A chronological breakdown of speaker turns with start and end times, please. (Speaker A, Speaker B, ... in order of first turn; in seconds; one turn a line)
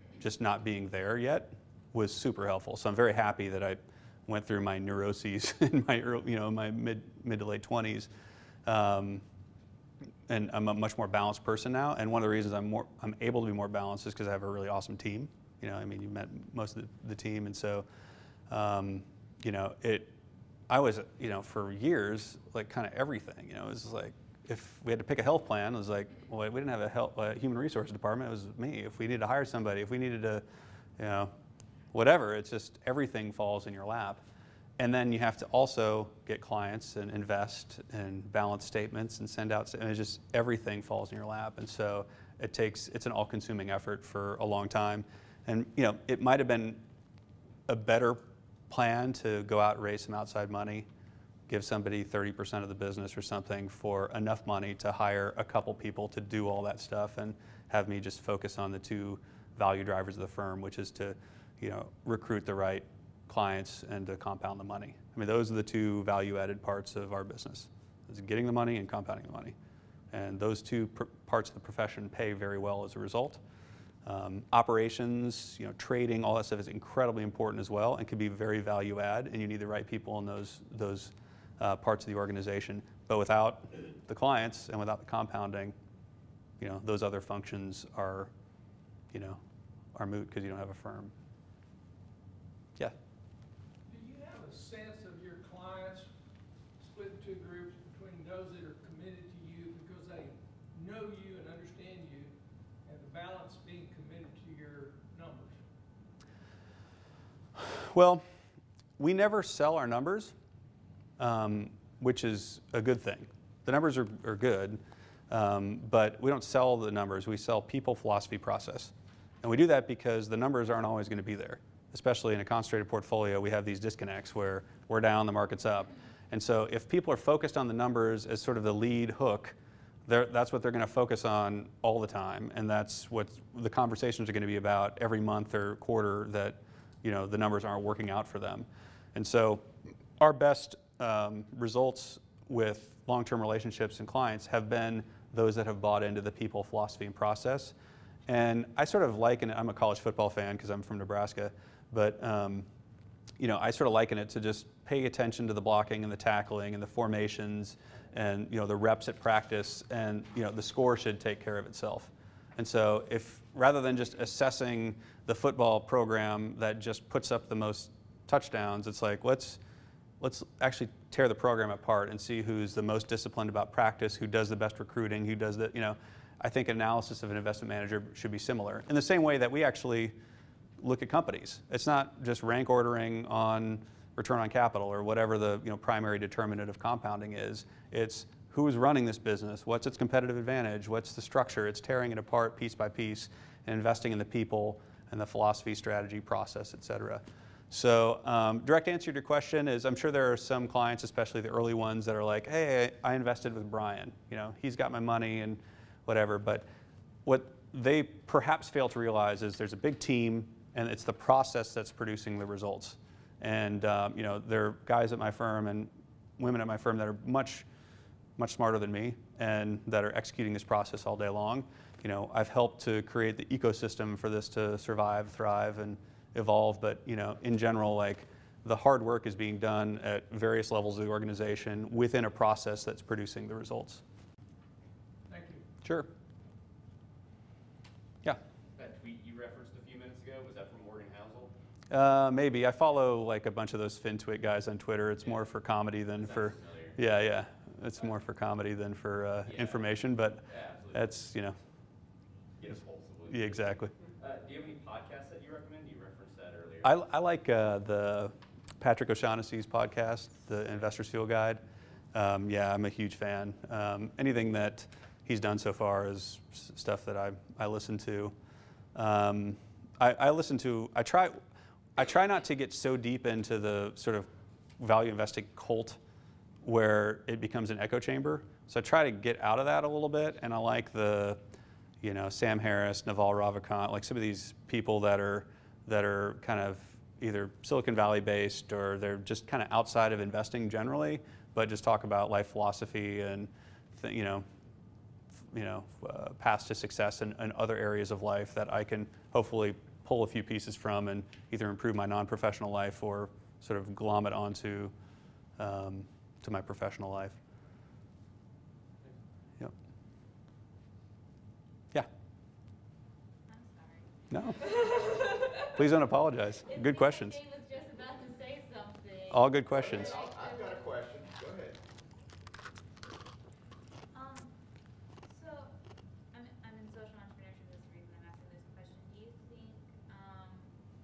Speaker A: 0.2-8.1
Speaker A: 8.7-9.2
Speaker A: 10.3-17.9
Speaker A: 18.5-20.1
Speaker A: 20.7-30.4
Speaker A: 31.0-31.3
Speaker A: 31.9-34.2
Speaker A: 34.8-46.8
Speaker A: 47.7-50.9
Speaker A: 51.5-69.5
Speaker A: 70.1-73.4
Speaker A: 74.1-85.7
Speaker A: 86.6-88.3
Speaker A: 89.1-89.4
Speaker A: 90.0-91.1
Speaker B: 93.9-96.1
Speaker B: 96.8-102.3
Speaker B: 102.8-105.7
Speaker A: 107.6-108.2
Speaker A: 109.0-110.3
Speaker A: 111.2-129.6
Speaker A: 130.1-139.7
Speaker A: 140.2-147.7
Speaker A: 148.3-152.7
Speaker A: 153.4-169.6
Speaker A: 170.2-180.2
Speaker A: 180.8-206.7
Speaker A: 207.3-217.7
Speaker A: 218.4-234.0
Speaker B: 235.3-235.6
Speaker A: 235.8-236.1
Speaker C: 238.8-241.5
Speaker A: 241.9-251.6
Speaker C: 246.1-247.0
Speaker C: 249.4-251.1
Speaker C: 252.6-256.9
Speaker A: 253.3-253.9
Speaker A: 256.8-261.6
Speaker A: 262.1-268.3
Speaker A: 268.9-271.4
Speaker A: 272.0-274.3
Speaker A: 274.8-276.0
Speaker A: 276.6-281.4
Speaker A: 282.0-294.4
Speaker A: 295.5-304.9
Speaker A: 305.6-307.4
Speaker D: 313.5-315.6
Speaker A: 314.3-315.2
Speaker A: 315.7-317.4
Speaker D: 316.6-321.0
Speaker A: 319.3-320.1
Speaker E: 319.7-321.8
Speaker D: 324.1-324.5
Speaker D: 325.2-325.7
Speaker D: 326.3-330.7